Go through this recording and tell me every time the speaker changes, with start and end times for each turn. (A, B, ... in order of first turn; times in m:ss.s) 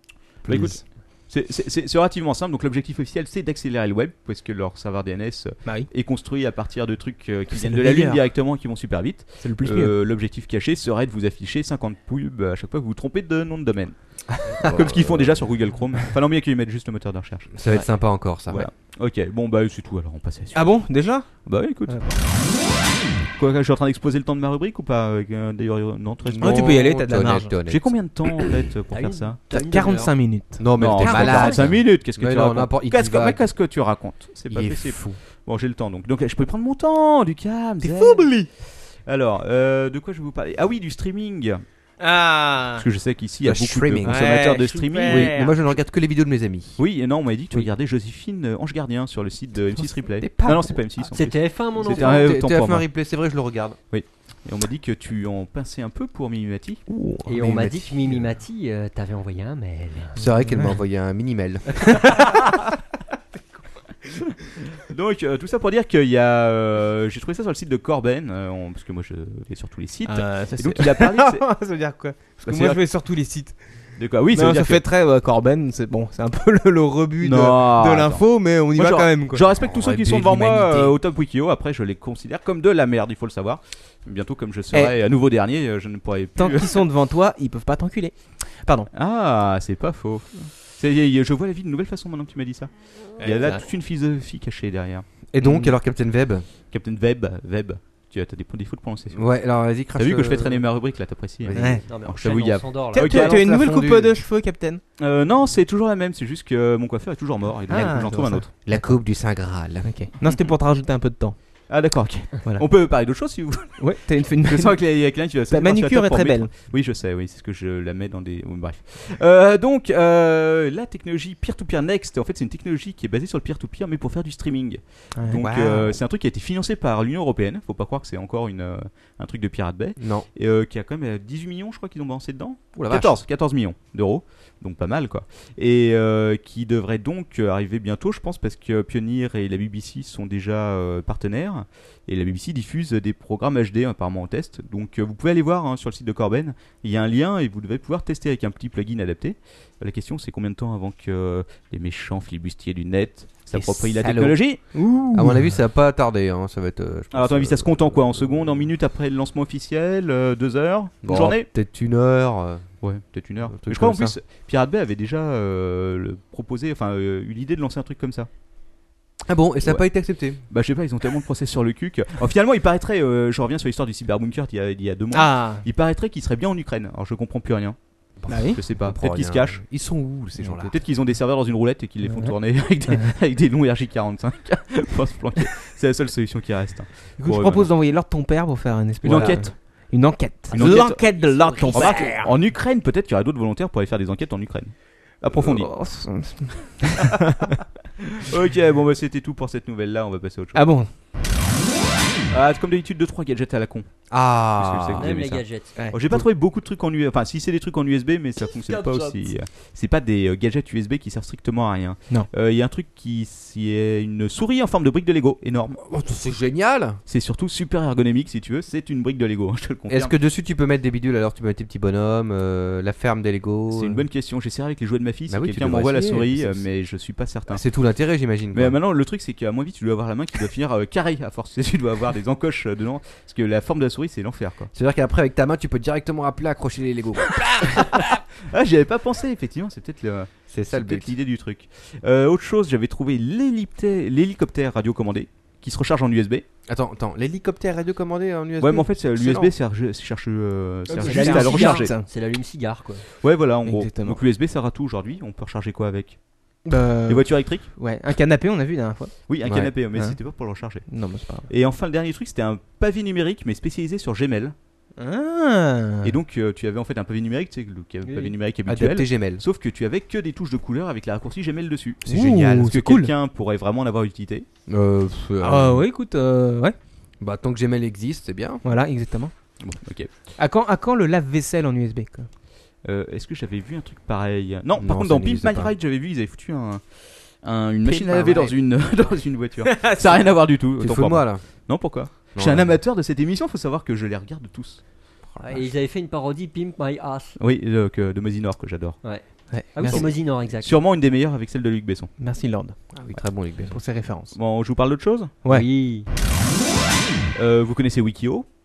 0:00.4-0:00.8 A
0:00.4-0:17.5 B
0:07.5-0:08.2 C
0:09.4-0:09.9 C
0:14.6-0:15.4 A
0:17.5-0:18.7 A
0:18.5-0:22.2 B
0:20.5-0:22.2 C
0:23.4-0:27.0 B
0:26.2-0:27.9 A
0:26.4-0:27.5 C
0:27.7-0:29.4 B
0:28.9-0:30.1 D
0:29.5-0:30.6 C
0:30.6-0:33.4 A
0:30.8-0:38.5 B
0:31.0-0:31.6 D
0:34.5-0:35.2 A
0:37.8-0:38.5 C
0:39.0-0:41.6 B
0:42.0-0:42.8 C
0:42.7-0:45.4 B
0:43.4-0:44.4 A
0:44.0-0:45.5 C
0:45.0-0:46.8 A
0:46.8-0:52.8 B
0:50.2-0:50.8 A
0:51.1-0:52.4 D
0:51.8-0:53.8 A
0:53.9-0:56.8 B
0:56.9-0:58.3 A
0:57.2-1:00.2 D
1:00.1-1:02.2 A
1:02.0-1:02.4 C
1:04.8-1:11.5 B
1:10.1-1:13.6 C
1:12.4-1:12.8 B
1:14.0-1:14.8 B
1:14.3-1:19.4 C
1:17.2-1:26.8 B
1:19.5-1:20.9 A
1:26.4-1:28.9 C
1:28.9-1:35.0 B
1:33.2-1:33.6 C
1:35.3-1:36.4 A
1:35.4-1:35.7 C
1:36.7-1:39.3 B
1:39.1-1:40.6 A
1:39.9-1:43.4 B
1:41.4-1:41.8 A
1:41.5-1:41.8 C
1:41.9-1:43.0 D
1:43.0-1:44.8 C
1:43.0-1:44.2 A
1:45.0-1:48.5 B
1:47.7-1:48.9 C
1:48.6-1:50.0 A
1:49.8-1:51.4 C
1:50.2-1:50.5 B
1:51.7-2:34.6 B
1:53.8-1:54.8 C
1:55.5-1:56.5 C
2:05.2-2:05.4 C
2:05.3-2:06.0 A
2:10.0-2:10.3 A
2:12.8-2:13.2 A
2:33.5-2:33.9 C
2:34.0-2:34.4 A
2:34.7-2:35.5 C
2:35.1-2:38.7 A
2:37.1-2:41.5 B
2:41.0-2:42.6 A
2:42.8-2:48.3 B
2:43.5-2:44.1 A
2:49.2-2:50.4 A
2:50.5-2:59.7 B
2:55.1-2:55.6 C
2:58.2-3:00.7 A
2:58.3-2:58.6 C
3:00.4-3:07.7 B
3:02.0-3:02.3 C
3:02.9-3:03.1 C
3:07.2-3:12.3 C
3:09.0-3:09.9 B
3:09.1-3:09.4 A
3:10.5-3:11.1 B
3:10.6-3:12.2 D
3:11.7-3:15.9 B
3:15.4-3:17.5 C
3:18.1-3:20.6 B
3:20.5-3:20.9 C
3:22.3-3:23.9 B
3:24.1-3:25.2 A
3:24.5-3:35.8 B
3:25.0-3:25.8 D
3:25.8-3:26.2 C
3:35.8-3:37.0 A
3:37.1-3:40.1 B
3:39.9-3:44.0 A
3:43.7-3:47.6 B
3:45.3-3:46.6 A
3:47.5-3:48.8 A
3:48.5-3:54.7 B
3:54.7-3:58.0 A
3:57.2-4:06.4 B
4:00.5-4:01.1 A
4:06.7-4:09.5 A
4:08.6-4:11.9 B
4:10.9-4:12.0 C
4:10.9-4:13.0 D
4:13.2-4:16.2 B
4:13.6-4:14.2 C
4:16.6-4:19.2 C
4:17.1-4:17.7 B
4:19.3-4:20.9 B
4:19.4-4:19.7 A
4:20.9-4:21.5 C
4:21.5-4:24.5 B
4:25.0-4:26.1 C
4:26.0-4:34.4 B
4:28.0-4:28.3 D
4:28.6-4:29.4 A
4:32.0-4:32.6 A
4:32.0-4:33.1 C
4:34.7-4:35.9 A
4:35.4-4:36.8 C
4:37.2-4:38.6 A
4:38.6-4:39.3 C
4:39.6-4:40.1 B
4:40.4-4:42.3 C
4:42.8-4:46.8 B
4:44.8-4:45.7 A
4:47.4-4:54.8 B
4:47.8-4:48.5 A
4:49.7-4:50.2 C
4:50.8-4:51.6 A
4:52.3-4:52.8 A
4:55.3-4:55.6 A
4:55.4-4:57.4 D
4:57.4-4:59.0 B
4:59.0-5:00.8 D
4:59.5-5:00.0 C
4:59.8-5:02.1 B
5:02.2-5:02.8 C
5:02.9-5:03.8 A
5:03.7-5:04.3 C
5:04.3-5:05.3 B
5:05.5-5:06.1 D
5:07.3-5:08.4 B